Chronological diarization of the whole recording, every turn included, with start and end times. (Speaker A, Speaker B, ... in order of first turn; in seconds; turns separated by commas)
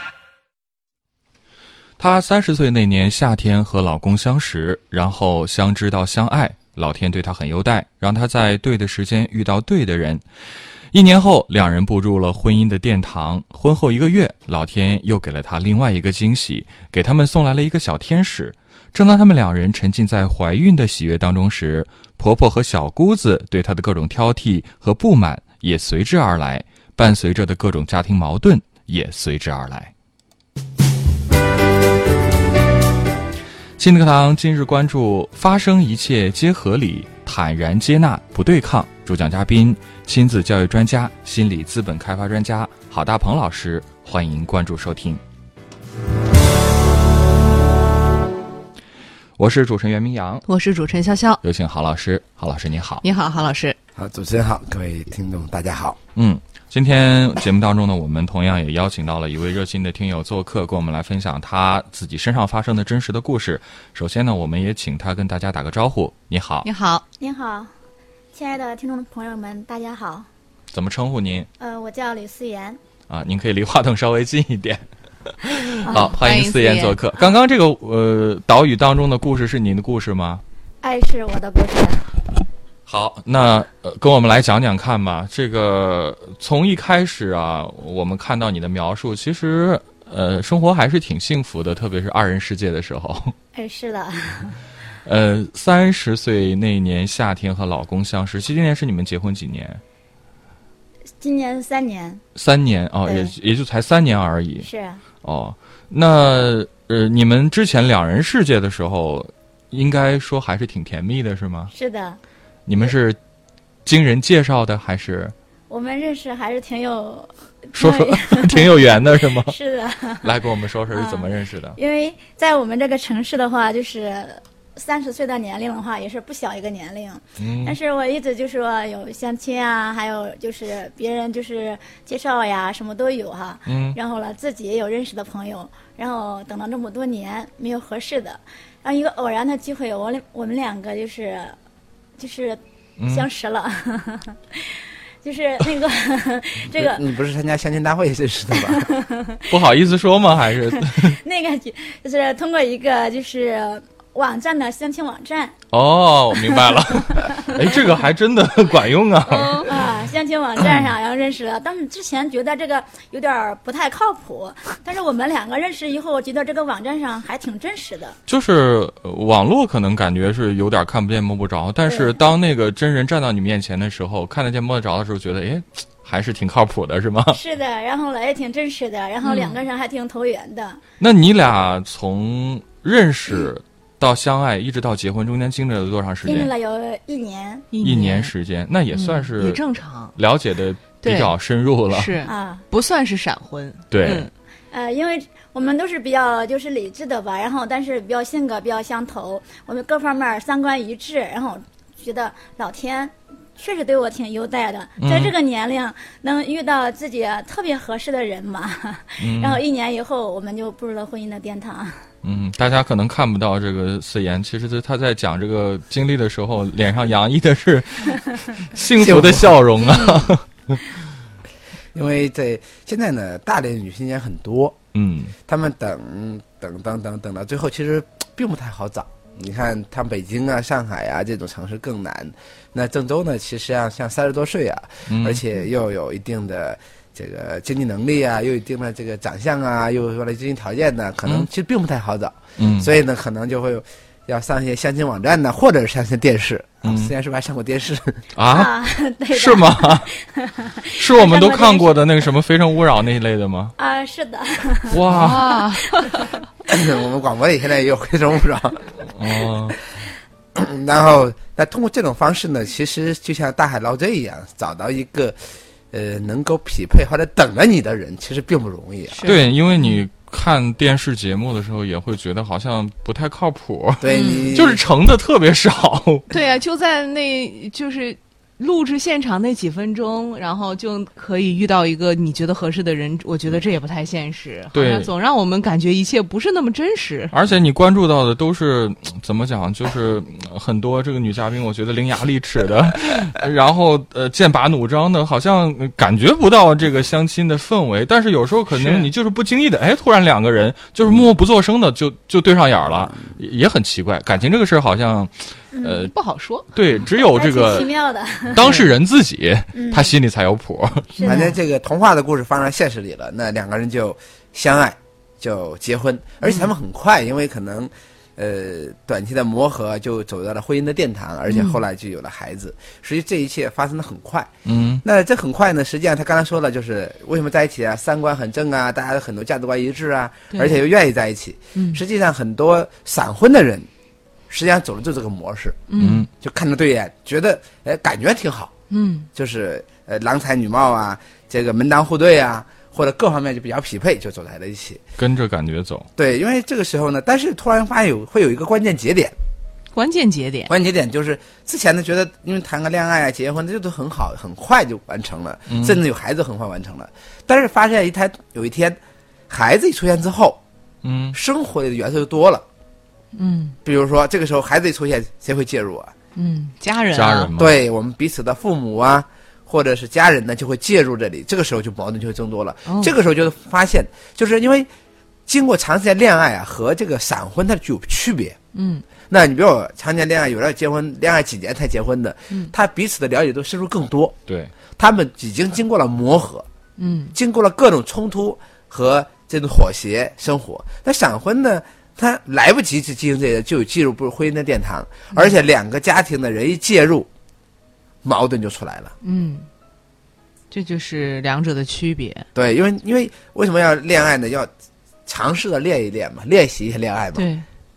Speaker A: 2.0-10.2, Speaker A: 10.9-29.9, Speaker A: 33.8-45.2, Speaker A: 49.4-50.4, Speaker B: 50.5-51.4, Speaker A: 51.4-53.0, Speaker B: 53.0-53.8, Speaker C: 54.0-56.0, Speaker A: 56.1-66.7, Speaker B: 66.6-67.0, Speaker D: 67.2-67.7, Speaker D: 68.3-70.3, Speaker A: 70.7-71.5, Speaker D: 71.6-72.8, Speaker A: 73.1-74.8, Speaker A: 75.4-80.4, Speaker D: 75.8-76.1, Speaker B: 75.9-77.0, Speaker D: 80.8-82.1, Speaker A: 82.9-93.3, Speaker D: 93.5-94.6, Speaker A: 95.0-99.8, Speaker D: 101.2-102.2, Speaker A: 102.3-104.7, Speaker D: 103.0-103.3, Speaker D: 104.6-105.0, Speaker A: 105.2-111.7, Speaker D: 111.7-112.2, Speaker A: 112.7-113.2, Speaker A: 113.8-115.3, Speaker D: 115.7-120.3, Speaker A: 117.7-119.5, Speaker A: 120.2-121.8, Speaker D: 120.9-141.6, Speaker A: 127.4-127.8, Speaker A: 133.7-134.0, Speaker D: 142.2-147.0, Speaker A: 143.0-143.3, Speaker C: 146.7-148.9, Speaker D: 148.5-149.4, Speaker A: 149.5-151.2, Speaker D: 150.9-155.6, Speaker A: 155.7-159.9, Speaker D: 156.4-157.8, Speaker D: 159.3-168.2, Speaker A: 168.3-177.4, Speaker D: 171.9-172.2, Speaker D: 177.3-180.8, Speaker B: 179.2-179.6, Speaker A: 181.0-186.5, Speaker D: 186.2-187.7, Speaker B: 187.7-188.3, Speaker A: 187.8-189.6, Speaker B: 188.9-190.2, Speaker A: 190.1-192.2, Speaker B: 191.0-191.3, Speaker B: 191.9-194.3, Speaker D: 192.2-192.6, Speaker A: 193.9-194.3, Speaker D: 194.7-212.0, Speaker A: 205.0-205.3, Speaker A: 209.2-209.6, Speaker A: 212.2-220.8, Speaker C: 219.0-219.6, Speaker C: 221.9-224.8, Speaker A: 224.9-225.3, Speaker C: 225.4-248.2, Speaker A: 235.1-235.4, Speaker A: 242.6-242.9, Speaker A: 246.8-247.1, Speaker A: 248.3-248.7, Speaker D: 248.4-252.3, Speaker A: 249.3-250.1, Speaker A: 251.0-253.7, Speaker D: 253.8-255.0, Speaker A: 254.9-255.7, Speaker B: 255.1-256.2, Speaker C: 256.7-258.9, Speaker A: 259.1-259.8, Speaker C: 260.5-265.4, Speaker C: 265.9-269.3, Speaker B: 269.1-270.0, Speaker A: 269.2-276.3, Speaker C: 274.0-274.8, Speaker B: 274.1-274.5, Speaker B: 276.3-287.3, Speaker A: 284.7-285.1, Speaker A: 287.3-306.1, Speaker B: 298.7-299.1, Speaker D: 305.7-306.1, Speaker B: 306.1-306.6, Speaker A: 306.7-308.0, Speaker D: 307.2-308.7, Speaker A: 308.5-311.2, Speaker B: 308.6-308.9, Speaker D: 309.7-310.1, Speaker D: 311.2-311.5, Speaker C: 311.2-324.5, Speaker B: 311.2-311.5, Speaker B: 316.4-316.7, Speaker B: 321.5-321.8, Speaker A: 324.6-325.0, Speaker C: 325.0-333.9, Speaker B: 330.5-330.8, Speaker B: 331.8-332.0, Speaker C: 334.5-335.8, Speaker B: 335.9-336.2, Speaker A: 335.9-336.3, Speaker C: 336.4-338.7, Speaker B: 338.9-339.3, Speaker C: 339.3-345.0, Speaker A: 345.2-346.1, Speaker C: 346.2-349.4, Speaker B: 349.9-350.7, Speaker C: 350.7-359.0, Speaker A: 355.7-356.0, Speaker C: 359.5-360.6, Speaker A: 361.0-361.4, Speaker C: 361.3-362.6, Speaker B: 363.3-363.8, Speaker C: 363.8-366.1, Speaker B: 366.4-367.5, Speaker A: 367.1-367.8, Speaker C: 367.6-374.9, Speaker C: 375.5-378.6, Speaker B: 378.7-379.0, Speaker C: 379.3-384.4, Speaker C: 384.9-386.6, Speaker B: 387.0-387.3, Speaker C: 387.3-397.3, Speaker C: 398.2-399.1, Speaker B: 399.2-399.7, Speaker B: 400.7-402.5, Speaker C: 402.5-404.7, Speaker C: 405.2-407.5, Speaker B: 407.4-407.6